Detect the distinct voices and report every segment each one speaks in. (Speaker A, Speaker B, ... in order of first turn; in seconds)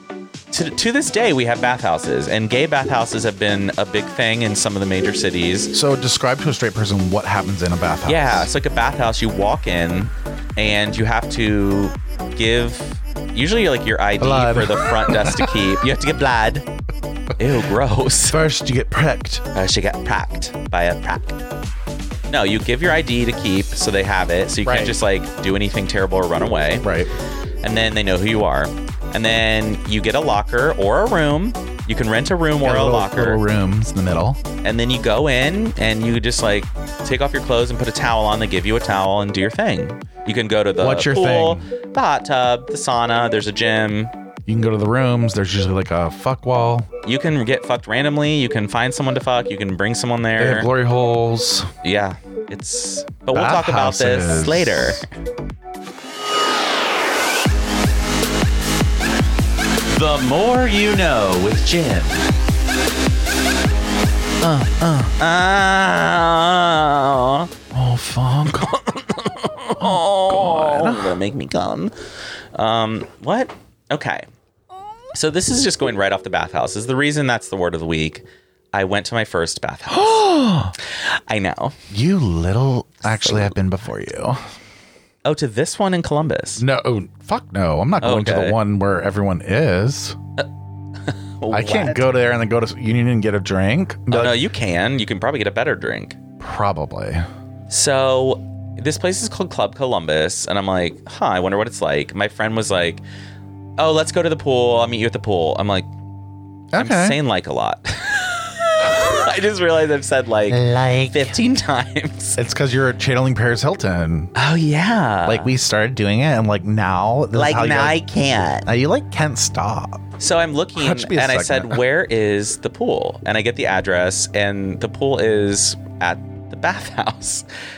Speaker A: 0.5-5.7, 8.1-16.7, 17.4-18.4, 19.5-21.4, 22.3-26.9, 27.6-33.4, 34.6-44.1, 47.0-50.7, 51.8-55.0, 59.9-62.2, 65.2-67.5, 68.5-71.9, 72.5-74.2, 75.1-80.3, 80.9-81.7, 83.0-83.5, 85.2-86.6, 88.0-88.6, 91.1-92.1, 94.1-96.2, 97.7-103.0, 103.8-105.9, 106.7-112.4, 114.4-115.5, 117.3-118.7, 120.2-127.4
Speaker B: 5.7-8.5, 14.2-15.6, 18.3-19.4, 24.6-25.0, 26.8-27.1, 32.6-34.4, 40.8-41.6, 44.5-46.9, 50.4-51.7, 53.3-55.0, 64.4-65.1, 67.7-68.7, 69.8-71.2, 79.9-80.7, 81.9-84.4, 86.6-90.2, 91.5-94.4, 96.4-97.2, 106.7-107.2, 110.5-111.4, 112.4-114.3, 115.2-118.0, 118.6-120.0, 120.8-121.8